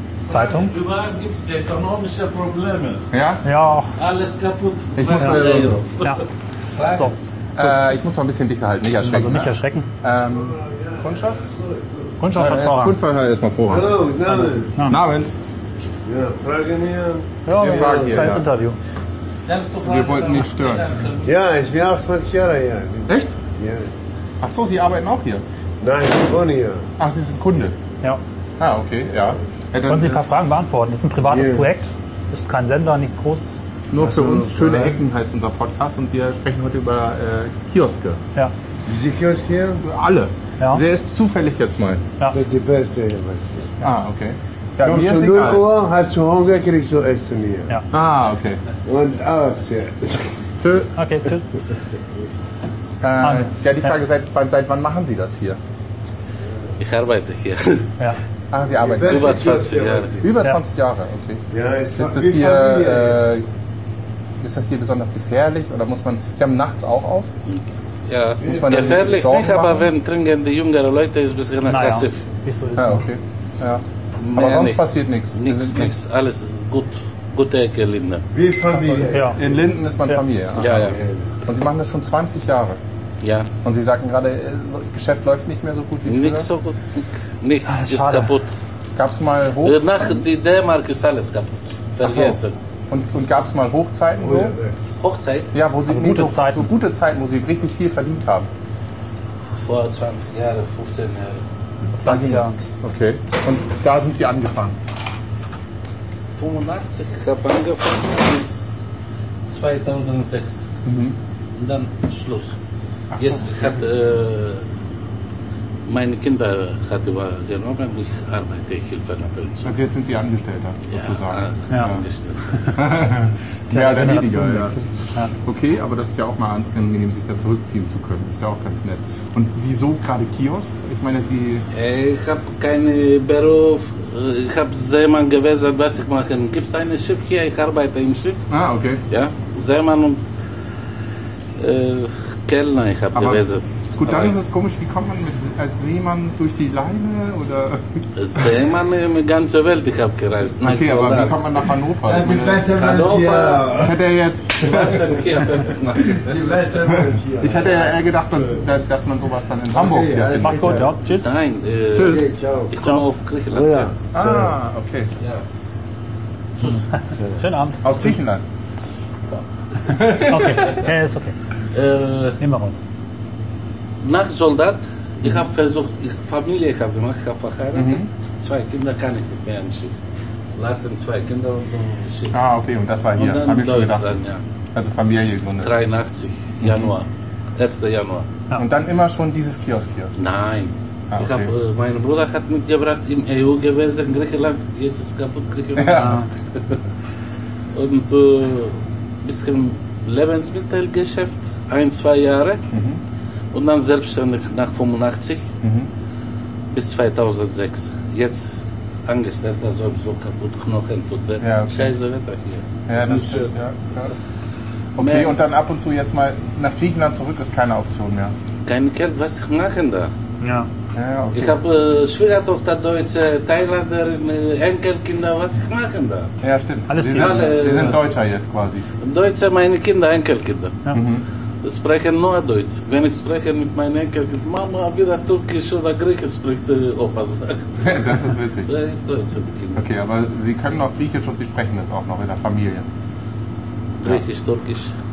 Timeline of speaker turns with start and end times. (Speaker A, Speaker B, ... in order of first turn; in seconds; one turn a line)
Speaker A: 0.3-0.7
Speaker B: 0.3-3.1
Speaker C: 3.1-3.5
Speaker A: 3.4-4.0
Speaker B: 4.0-7.3
Speaker C: 5.0-5.8
Speaker C: 7.5-11.4
Speaker A: 9.0-9.9
Speaker D: 10.2-12.2
Speaker A: 12.2-13.0
Speaker C: 12.3-14.2
Speaker D: 13.7-14.7
Speaker A: 14.3-15.0
Speaker C: 14.8-15.3
Speaker D: 16.0-18.4
Speaker A: 17.4-18.8
Speaker C: 17.5-18.5
Speaker B: 19.4-21.4
Speaker C: 19.8-20.9
Speaker D: 21.2-23.9
Speaker C: 23.1-23.4
Speaker C: 24.4-25.4
Speaker D: 25.8-26.9
Speaker C: 27.0-27.8
Speaker C: 28.6-30.2
Speaker A: 29.9-33.6
Speaker D: 31.2-31.7
Speaker C: 33.9-38.2
Speaker D: 34.0-35.0
Speaker D: 38.9-39.8
Speaker C: 39.8-42.1
Speaker D: 42.3-43.8
Speaker C: 43.8-45.7
Speaker D: 44.8-47.8
Speaker C: 47.9-48.6
Speaker D: 48.8-50.5
Speaker C: 50.6-50.9
Speaker A: 50.9-51.5
Speaker D: 51.7-52.0
Speaker C: 53.0-55.6
Speaker A: 53.2-53.9
Speaker D: 56.4-56.7
Speaker B: 56.8-57.9
Speaker C: 58.5-59.6
Speaker D: 58.6-60.3
Speaker B: 59.0-60.1
Speaker C: 60.2-61.4
Speaker D: 61.5-63.2
Speaker C: 62.0-63.5
Speaker C: 64.4-67.3
Speaker B: 67.5-72.2
Speaker D: 68.4-69.2
Speaker C: 68.4-69.9
Speaker A: 71.6-73.1
Speaker C: 72.8-76.0
Speaker B: 74.2-78.2
Speaker D: 78.3-79.5
Speaker C: 78.7-82.8
Speaker A: 79.1-79.4
Speaker B: 80.6-81.0
Speaker D: 80.7-81.2
Speaker B: 83.2-83.5
Speaker C: 83.6-86.5
Speaker B: 86.0-88.5
Speaker A: 87.7-88.3
Speaker C: 89.0-90.2
Speaker B: 89.6-92.5
Speaker C: 92.0-94.5
Speaker D: 94.2-94.8
Speaker B: 95.0-95.5
Speaker C: 95.5-98.5
Speaker A: 95.9-96.7
Speaker B: 99.6-101.4
Speaker A: 101.9-102.6
Speaker C: 102.0-104.8
Speaker B: 106.3-108.8
Speaker B: 109.5-110.7
Speaker C: 110.8-111.2
Speaker B: 111.5-112.5
Speaker C: 113.1-113.8
Speaker B: 113.2-114.7
Speaker B: 115.8-119.7
Speaker C: 119.6-122.0
Speaker B: 120.9-122.7
Speaker A: 122.5-122.8
Speaker C: 122.7-131.7
Speaker A: 123.7-125.3
Speaker B: 131.7-138.4
Speaker C: 138.5-139.0
Speaker B: 139.1-140.2
Speaker B: 141.6-144.3
Speaker C: 143.1-143.4
Speaker C: 143.9-148.5
Speaker B: 148.1-151.4
Speaker C: 150.6-152.7
Speaker D: 152.0-154.0
Speaker B: 152.3-153.8
Speaker C: 153.8-155.2
Speaker B: 154.6-156.5
Speaker D: 154.6-155.2
Speaker D: 156.0-158.6
Speaker C: 157.4-160.9
Speaker D: 159.7-160.9
Speaker A: 160.4-161.3
Speaker B: 161.0-163.9
Speaker C: 161.9-162.3
Speaker D: 161.9-162.8
Speaker D: 163.5-164.6
Speaker C: 164.1-165.1
Speaker B: 165.2-165.4
Speaker B: 166.6-166.8
Speaker A: 166.6-168.2
Speaker D: 167.1-167.4
Speaker C: 167.8-168.4
Speaker C: 169.8-170.9
Speaker A: 169.9-171.3
Speaker B: 171.7-172.4
Speaker A: 172.4-172.8
Speaker B: 174.0-180.0
Speaker C: 177.7-178.1
Speaker B: 180.6-182.4
Speaker C: 182.3-184.1
Speaker B: 183.1-184.4
Speaker C: 184.7-185.7
Speaker B: 185.6-188.3
Speaker C: 186.6-186.9
Speaker C: 188.6-190.1
Speaker B: 190.2-196.8
Speaker C: 191.1-191.5
Speaker C: 195.8-196.2
Speaker A: 195.9-196.3
Speaker B: 197.7-202.6
Speaker C: 202.7-203.0
Speaker B: 203.5-205.5
Speaker C: 205.6-205.9
Speaker B: 206.7-208.5
Speaker B: 209.1-213.5
Speaker C: 211.4-211.9
Speaker C: 212.9-214.2
Speaker C: 214.9-218.3
Speaker B: 215.0-215.3
Speaker B: 218.7-220.1
Speaker A: 220.4-220.7
Speaker C: 220.9-221.6
Speaker B: 221.3-226.3
Speaker C: 226.4-228.8
Speaker A: 226.9-227.9
Speaker B: 227.1-228.0
Speaker B: 229.0-230.8
Speaker C: 230.9-231.2
Speaker B: 231.6-239.8
Speaker C: 237.8-238.7
Speaker C: 239.7-242.8
Speaker B: 244.0-244.9